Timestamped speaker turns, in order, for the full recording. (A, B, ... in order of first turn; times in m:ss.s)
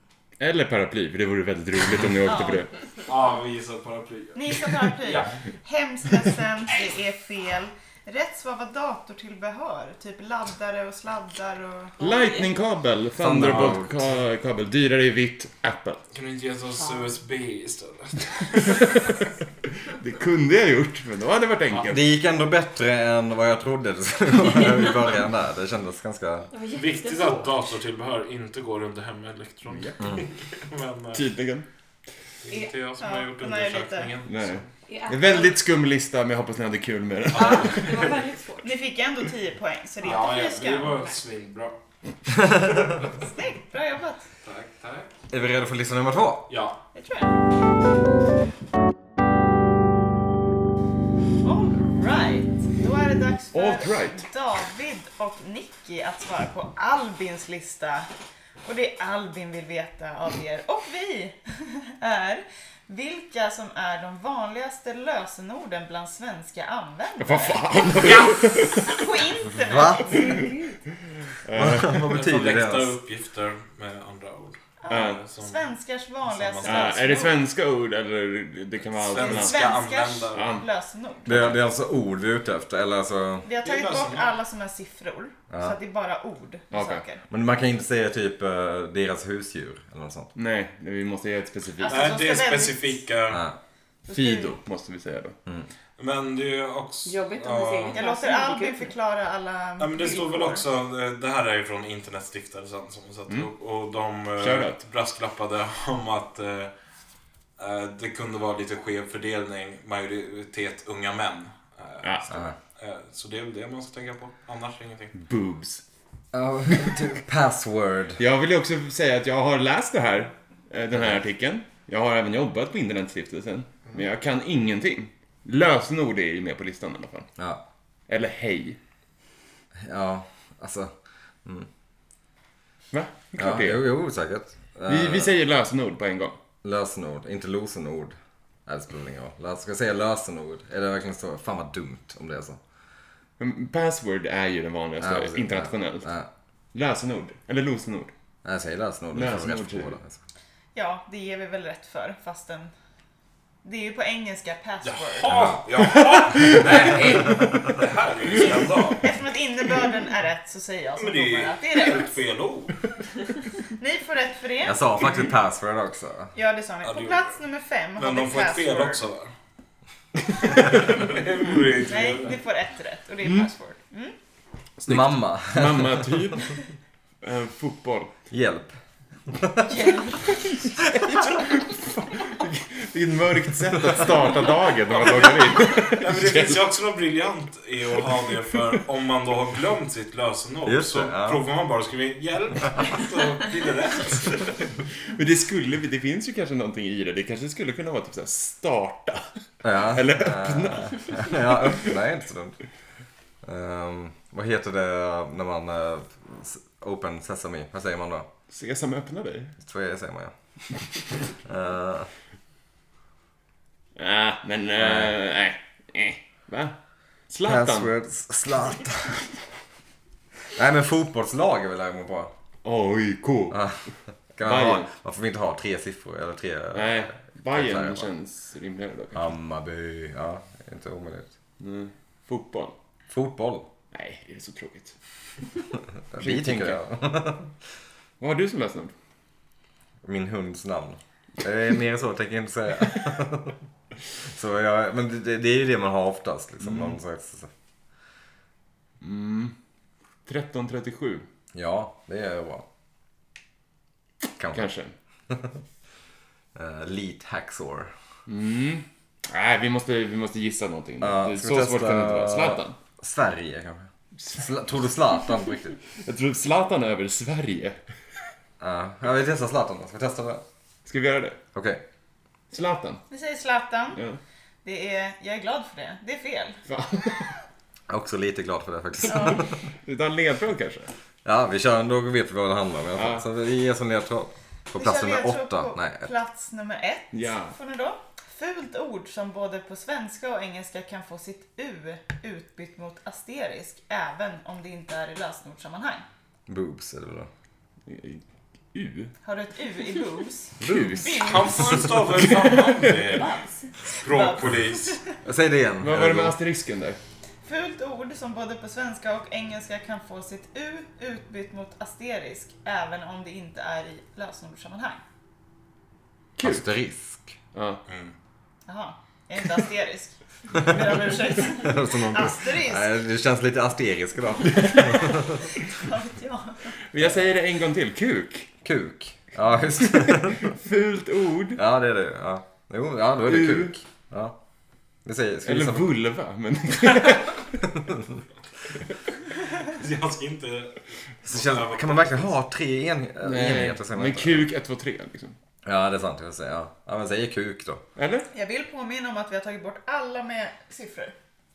0:00.4-0:02.7 A
0:02.2-0:02.6 B
0:03.0-0:05.3 C
0:04.3-0:12.0 B
0:12.0-0:16.0 A
0:12.0-0:12.5 D
0:13.2-0:13.9 E
0:13.4-0:13.8 C
0:16.1-0:19.0 C
0:16.8-0:17.1 D
0:19.8-0:22.0 A
0:21.7-0:22.0 C
0:21.9-0:26.5 E
0:26.5-0:27.6 D
0:26.7-0:31.2 C
0:31.1-0:31.6 A
0:32.4-0:34.7 C
0:33.0-0:34.1 B
0:34.2-0:37.8 A
0:34.9-0:35.5 D
0:37.3-0:38.3 C
0:37.4-0:38.8 D
0:38.6-0:41.0 B
0:40.0-0:41.8 C
0:40.8-0:41.1 D
0:43.2-0:44.2 B
0:44.4-0:45.1 C
0:45.3-0:46.5 E
0:46.5-0:46.8 C
0:46.9-0:47.3 B
0:51.4-0:58.1 B
0:53.5-0:54.2 A
0:58.6-1:10.4 B
1:07.2-1:09.0 A
1:09.6-1:10.5 E
1:10.2-1:10.7 D
1:11.4-1:12.1 A
1:11.5-1:12.9 E
1:11.8-1:15.7 C
1:14.8-1:17.3 B
1:14.9-1:15.2 A
1:16.3-1:17.1 C
1:16.6-1:19.6 A
1:19.0-1:20.6 C
1:19.2-1:21.6 B
1:20.3-1:20.6 A
1:21.2-1:23.5 E
1:23.4-1:27.2 B
1:23.6-1:24.4 C
1:25.5-1:25.8 E
1:26.7-1:27.0 A
1:27.3-1:30.3 E
1:30.3-1:32.2 A
1:31.8-1:33.0 B
1:31.8-1:33.5 C
1:33.3-1:33.6 E
1:34.1-1:34.5 B
1:34.1-1:35.4 A
1:36.0-1:38.0 C
1:37.0-1:38.9 D
1:37.9-1:40.2 B
1:39.8-1:46.7 C
1:40.0-1:40.6 D
1:44.4-1:44.8 A
1:47.6-1:55.2 C
1:52.0-1:52.4 A
1:55.1-1:55.8 A
1:56.3-1:58.2 E
1:58.2-2:07.3 A
2:08.1-2:08.8 A
2:09.8-2:10.9 E
2:12.9-2:13.8 A
2:13.4-2:15.3 E
2:14.9-2:16.4 A
2:16.6-2:22.6 E
2:23.4-2:26.1 A
2:25.0-2:26.3 E
2:26.7-2:28.1 A
2:28.4-2:30.2 E
2:29.1-2:30.0 A
2:30.7-2:32.7 B
2:33.6-2:35.4 B
2:34.8-2:39.1 C
2:35.3-2:35.7 E
2:39.0-2:42.1 B
2:41.0-2:42.8 C
2:43.8-2:44.9 B
2:44.6-2:46.3 E
2:46.3-2:49.0 B
2:46.8-2:47.4 C
2:48.0-2:49.3 C
2:50.4-2:52.4 C
2:51.9-2:54.1 B
2:54.8-2:56.2 E
2:54.9-2:56.6 A
2:57.2-2:58.1 A
2:58.3-2:58.7 E
2:59.3-2:59.7 E
3:01.0-3:06.6 A
3:04.9-3:14.7 C
3:10.6-3:11.4 E
3:15.1-3:21.9 A
3:19.6-3:22.6 E
3:23.4-3:28.3 E
3:28.5-3:29.5 A
3:29.6-3:32.1 E
3:34.0-3:36.8 A
3:34.8-3:35.1 E
3:37.3-3:37.9 A
3:37.4-3:39.3 E
3:40.5-3:42.3 E
3:42.6-3:43.7 A
3:43.5-3:48.1 E
3:44.4-3:44.9 A
3:46.7-3:49.3 A
3:49.1-3:51.3 E
3:51.6-3:52.7 A
3:53.1-3:53.7 E
3:53.9-3:55.0 A
3:56.1-3:57.5 E
3:56.2-3:56.8 A
3:58.2-3:58.9 A
4:00.0-4:03.5 E
4:04.3-4:07.5 E
4:06.6-4:07.0 A
4:09.0-4:09.6 A
4:10.2-4:11.2 A
4:11.5-4:12.6 E
4:14.4-4:14.6 E
4:14.5-4:14.9 A
4:16.5-4:17.9 E
4:18.2-4:22.8 A
4:21.0-4:25.8 E
4:24.2-4:24.4 A
4:25.9-4:27.8 A
4:28.6-4:30.4 E
4:30.8-4:31.4 A
4:31.5-4:31.8 E
4:32.5-4:33.0 A
4:33.1-4:34.0 B
4:34.6-4:36.6 B
4:36.7-4:37.3 A
4:37.9-4:39.6 E
4:39.1-4:39.4 B
4:39.1-4:40.9 A
4:41.2-4:46.1 E
4:42.9-4:43.3 A
4:44.7-4:56.0 B
4:47.1-4:47.6 A
4:56.5-4:57.3 E
4:57.8-4:59.1 A
4:59.2-5:01.9 B
5:00.6-5:03.0 A
5:00.6-5:01.2 E
5:01.2-5:05.0 C
5:03.1-5:03.7 D
5:03.9-5:05.1 B
5:05.2-5:06.4 E
5:05.8-5:07.0 A
5:07.4-5:15.0 B
5:16.4-5:16.6 A
5:16.4-5:17.4 E
5:17.5-5:17.8 A
5:17.9-5:18.1 C
5:18.6-5:22.9 B
5:21.5-5:25.5 E
5:25.5-5:26.8 B
5:26.9-5:28.5 A
5:28.6-5:30.5 E
5:29.8-5:31.6 A
5:31.5-5:34.3 E
5:33.2-5:33.7 A
5:35.0-5:35.9 E
5:35.4-5:37.6 A
5:39.5-5:42.3 C
5:41.2-5:44.5 E
5:43.2-5:45.4 A
5:45.6-5:47.8 E
5:48.0-5:48.3 A
5:48.3-5:51.1 B